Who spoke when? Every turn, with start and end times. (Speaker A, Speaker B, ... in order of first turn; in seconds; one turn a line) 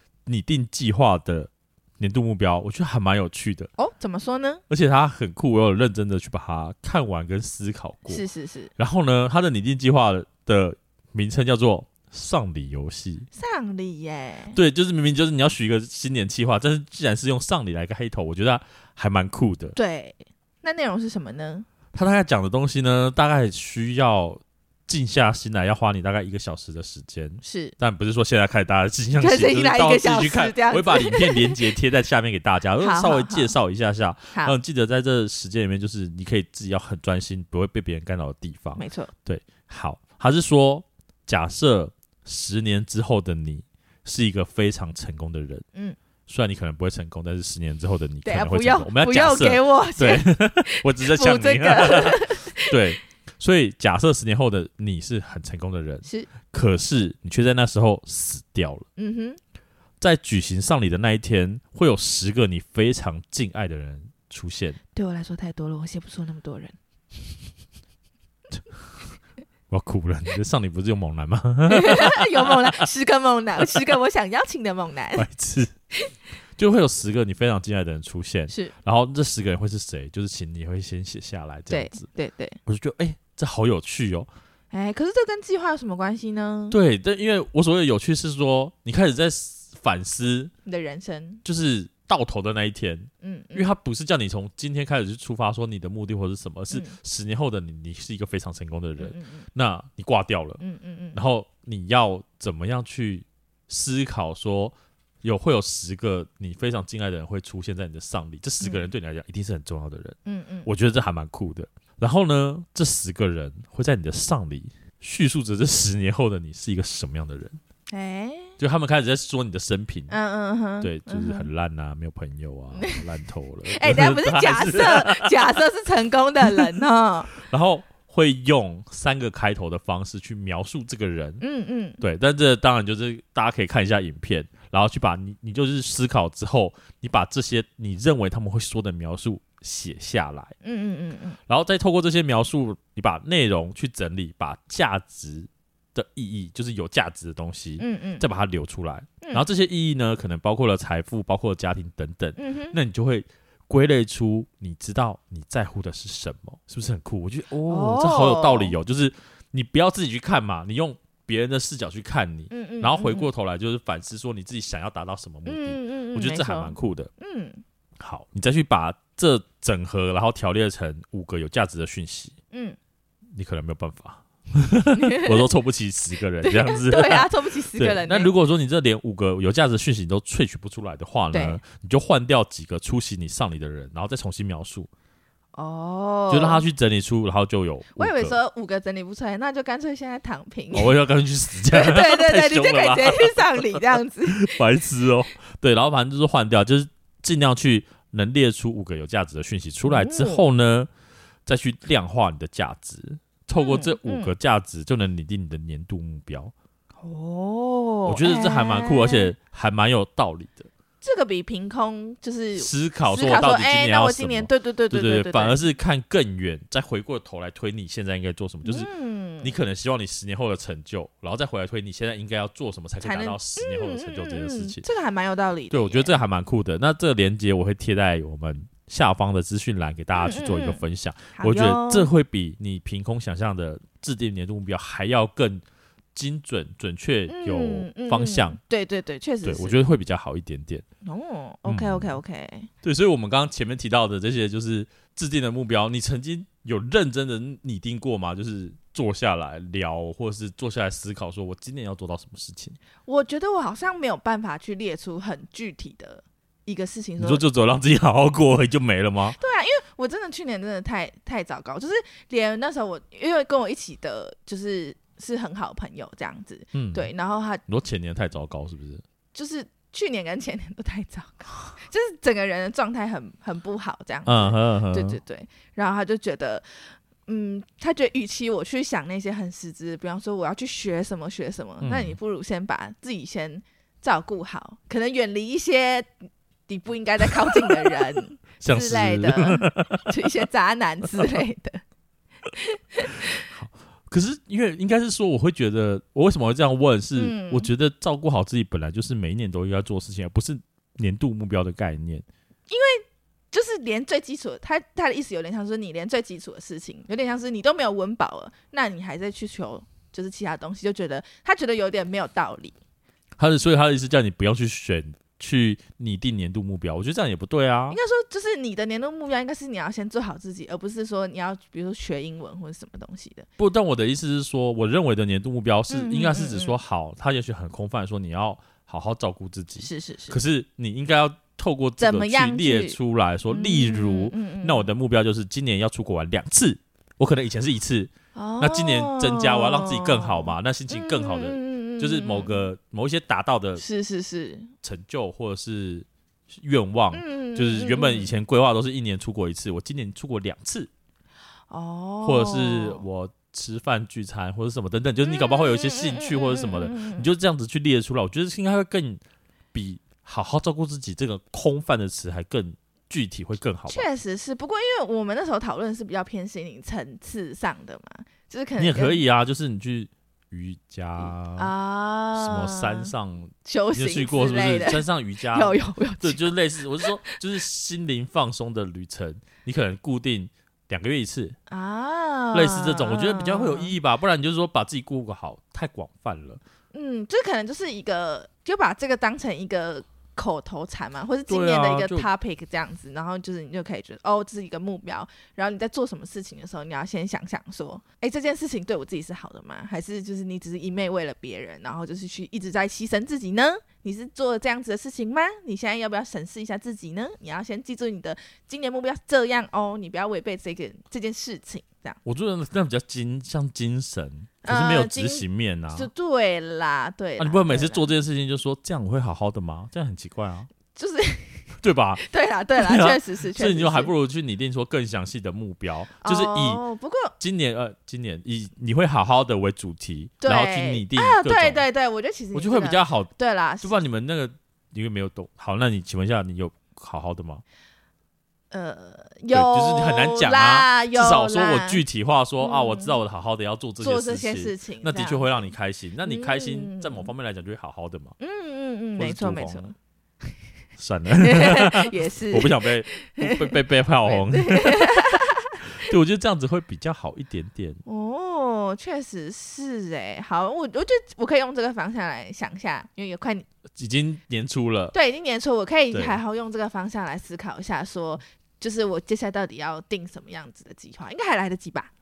Speaker A: 0.2-3.7
Speaker B: 3.8-4.6
Speaker A: 4.7-8.2
Speaker B: 8.1-8.7
Speaker A: 8.8-13.3
Speaker B: 13.3-14.6
Speaker A: 14.5-19.8
Speaker B: 19.8-21.7
Speaker A: 21.9-45.6
Speaker B: 27.4-27.8
Speaker B: 29.2-31.6
Speaker B: 32.8-33.5
Speaker B: 38.8-39.1
Speaker A: 46.3-58.9
Speaker B: 48.2-52.8
Speaker B: 56.0-56.3
Speaker B: 59.0-59.4
Speaker A: 60.0-64.8
Speaker B: 64.9-66.7
Speaker A: 69.7-72.8
Speaker B: 71.7-75.3
Speaker A: 75.2-75.7
Speaker A: 76.6-82.0
Speaker B: 78.5-78.7
Speaker B: 81.7-82.6
Speaker A: 82.7-84.3
Speaker B: 84.7-86.8
Speaker A: 86.7-90.5
Speaker B: 90.6-91.4
Speaker A: 91.4-100.6
Speaker B: 93.2-93.7
Speaker B: 96.7-97.0
Speaker B: 99.0-99.5
Speaker B: 100.6-101.2
Speaker A: 101.1-117.6
Speaker B: 110.2-110.7
Speaker B: 117.9-118.6
Speaker A: 118.6-120.1
Speaker B: 120.1-121.5
Speaker A: 120.8-125.6
Speaker B: 122.7-123.0
Speaker B: 123.7-127.3
Speaker A: 126.4-126.7
Speaker A: 127.4-131.4
Speaker B: 131.4-132.0
Speaker A: 132.0-140.5
Speaker B: 140.6-141.4
Speaker A: 141.5-167.1
Speaker B: 147.8-148.3
Speaker B: 152.4-152.8
Speaker B: 157.6-158.8
Speaker B: 162.5-163.3
Speaker B: 165.4-167.6
Speaker A: 168.0-172.3
Speaker B: 172.5-172.8
Speaker A: 173.3-184.9
Speaker B: 174.9-175.5
Speaker B: 176.4-178.3
Speaker B: 181.3-181.6
Speaker B: 185.5-186.6
Speaker A: 186.3-188.4
Speaker B: 187.9-191.0
Speaker A: 190.7-200.9
Speaker B: 191.7-194.5
Speaker B: 199.8-200.4
Speaker A: 201.4-206.5
Speaker B: 203.6-204.3
Speaker B: 207.0-209.3
Speaker A: 208.0-210.7
Speaker B: 211.0-215.6
Speaker A: 212.6-218.9
Speaker B: 218.6-219.5
Speaker A: 219.4-224.8
Speaker B: 223.0-226.2
Speaker A: 225.7-235.6
Speaker B: 230.2-230.8
Speaker B: 231.3-232.1
Speaker A: 236.1-238.6
Speaker B: 237.3-239.8
Speaker A: 239.4-240.8
Speaker B: 241.0-242.7
Speaker A: 241.7-242.2
Speaker A: 242.8-252.8
Speaker B: 253.1-257.4
Speaker A: 257.2-259.4
Speaker B: 259.4-267.6
Speaker A: 266.7-267.1
Speaker A: 267.7-269.0
Speaker B: 269.3-291.8
Speaker A: 274.2-275.2
Speaker A: 281.8-282.2
Speaker A: 288.6-290.1
Speaker B: 292.6-293.4
Speaker A: 293.5-302.2
Speaker B: 297.1-297.7
Speaker B: 302.7-312.8
Speaker A: 313.4-318.0
Speaker B: 317.9-323.5
Speaker A: 323.6-343.8
Speaker B: 325.9-326.8
Speaker B: 329.8-330.4
Speaker B: 332.0-333.0
Speaker B: 333.5-334.9
Speaker B: 338.4-342.7
Speaker B: 343.8-344.7
Speaker A: 344.8-350.9
Speaker B: 347.1-348.3
Speaker B: 351.7-353.0
Speaker A: 352.2-359.2
Speaker B: 355.2-357.3
Speaker A: 359.7-364.1
Speaker B: 363.9-369.2
Speaker A: 368.8-371.7
Speaker B: 371.6-373.1
Speaker A: 372.4-381.6
Speaker B: 373.6-376.5
Speaker B: 377.0-377.4
Speaker B: 381.7-383.9
Speaker A: 382.5-386.6
Speaker B: 386.9-412.2
Speaker A: 391.5-392.3
Speaker A: 412.2-416.1
Speaker B: 414.6-418.1
Speaker A: 417.4-420.7
Speaker B: 420.9-424.1
Speaker A: 421.8-422.2
Speaker A: 422.8-426.8
Speaker B: 426.2-427.3
Speaker A: 427.4-431.8
Speaker B: 430.4-433.9
Speaker A: 432.5-437.6
Speaker B: 438.7-442.0
Speaker A: 439.5-448.4
Speaker B: 442.6-443.2
Speaker B: 444.0-447.3
Speaker B: 448.4-449.9
Speaker A: 449.1-449.9
Speaker A: 451.0-458.0
Speaker B: 451.4-456.0
Speaker B: 458.0-463.6
Speaker A: 463.9-465.1
Speaker B: 465.1-472.1
Speaker A: 466.1-466.4